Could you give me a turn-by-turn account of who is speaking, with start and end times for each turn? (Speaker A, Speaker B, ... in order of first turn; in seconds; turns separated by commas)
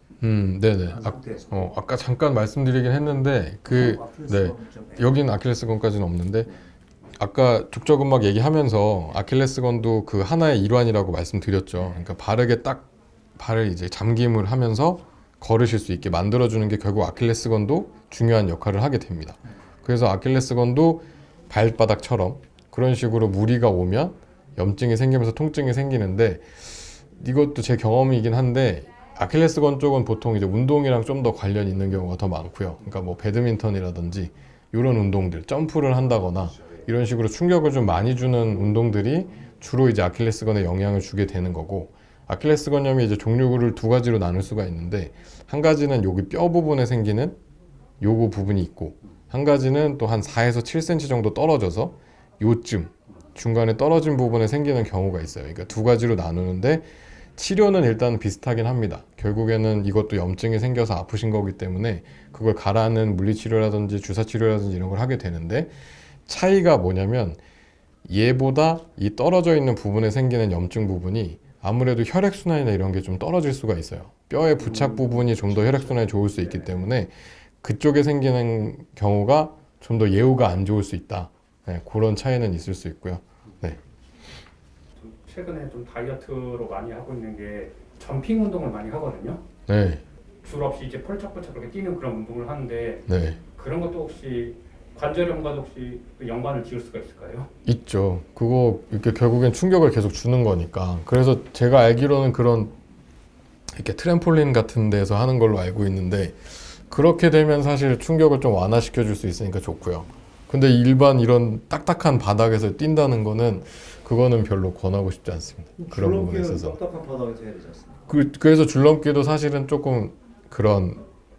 Speaker A: 0.2-6.5, Speaker B: 0.9-1.7, Speaker B: 3.6-5.3, Speaker A: 7.2-47.4, Speaker B: 36.3-36.9, Speaker A: 48.0-65.7, Speaker A: 66.2-67.4, Speaker A: 68.0-83.8, Speaker B: 74.6-76.9, Speaker C: 85.0-89.4, Speaker A: 89.7-90.0, Speaker C: 90.4-97.5, Speaker A: 93.1-93.4, Speaker A: 97.6-102.7, Speaker A: 103.7-116.8, Speaker B: 115.8-118.1, Speaker A: 118.1-121.0